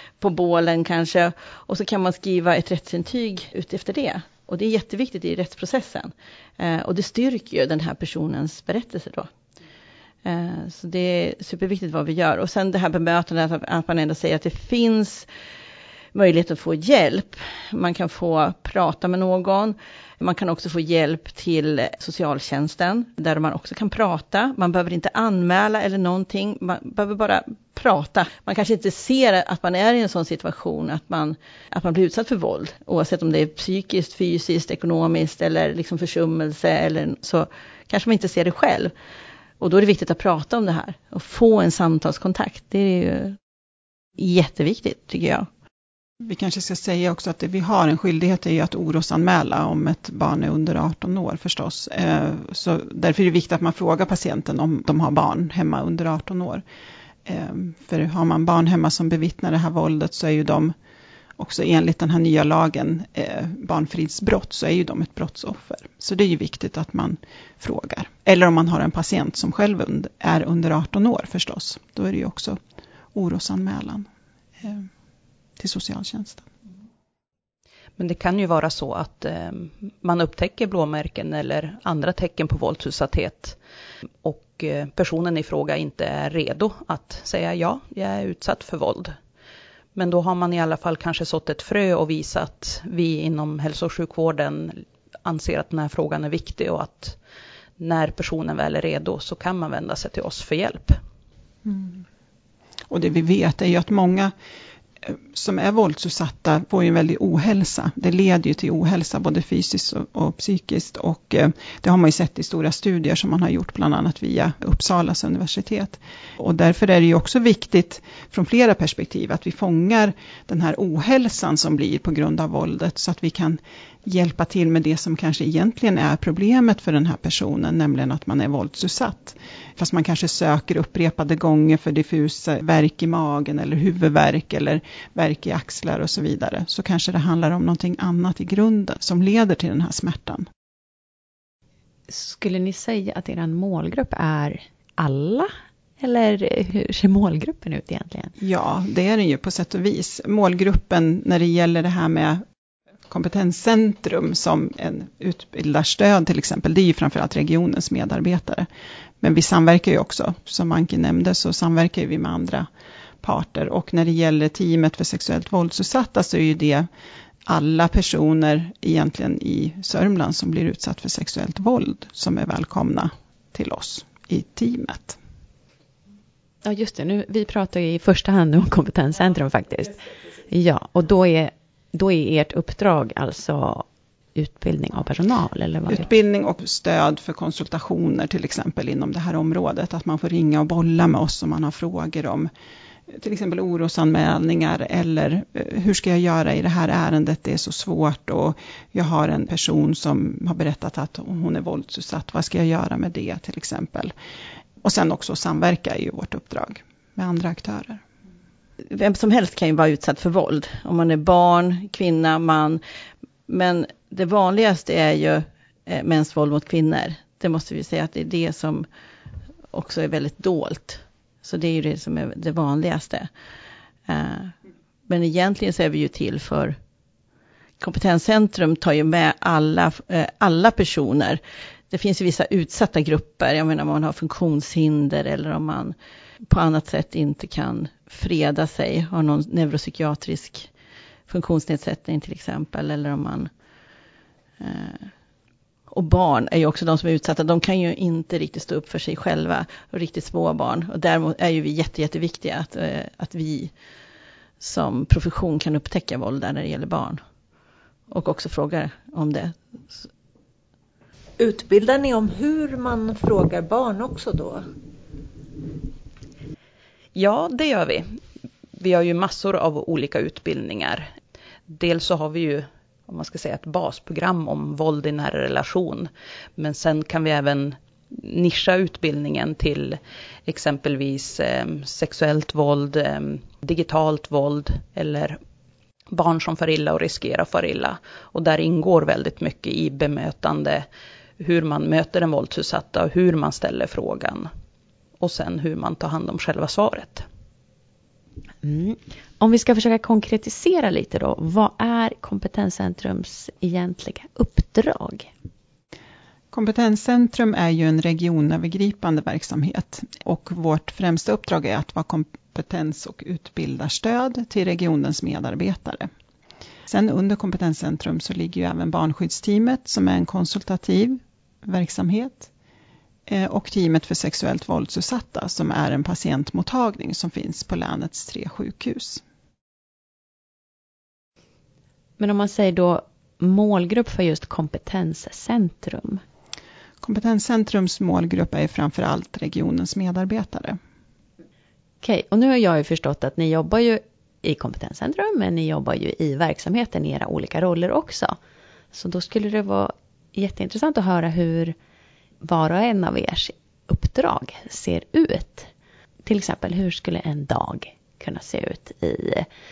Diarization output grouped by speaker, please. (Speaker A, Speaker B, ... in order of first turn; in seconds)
Speaker A: 0.2-9.3, 10.2-15.3, 16.1-38.9, 39.6-43.4, 44.2-45.5, 208.9-212.8, 213.5-218.9, 219.7-223.3, 224.1-224.5, 225.1-226.8, 227.8-235.9, 236.5-240.7, 241.3-243.5, 244.6-245.1, 245.9-253.7, 254.6-257.2, 258.1-260.1
Speaker B: 46.2-56.6, 57.3-60.8, 61.4-72.6, 73.1-74.1, 74.6-74.9, 75.6-76.5, 101.7-102.0, 102.9-104.3, 105.0-140.5, 148.4-152.4, 153.1-158.7, 159.2-162.7, 163.2-166.9, 167.5-175.2, 185.9-192.5, 193.1-204.1, 204.8-208.0, 306.5-316.1, 316.9-322.5, 323.3-329.2, 337.0-340.8
Speaker C: 78.0-83.6, 84.2-89.2, 90.0-97.2, 97.8-101.0, 267.1-268.2, 268.8-271.1, 271.7-285.4, 286.1-290.9, 291.4-294.5, 295.2-297.3
Speaker D: 142.1-148.3, 176.6-186.1, 298.6-305.3, 332.2-336.2, 342.0-348.4, 348.9-351.8, 352.4-355.7, 356.2-359.5
Speaker E: 261.4-264.6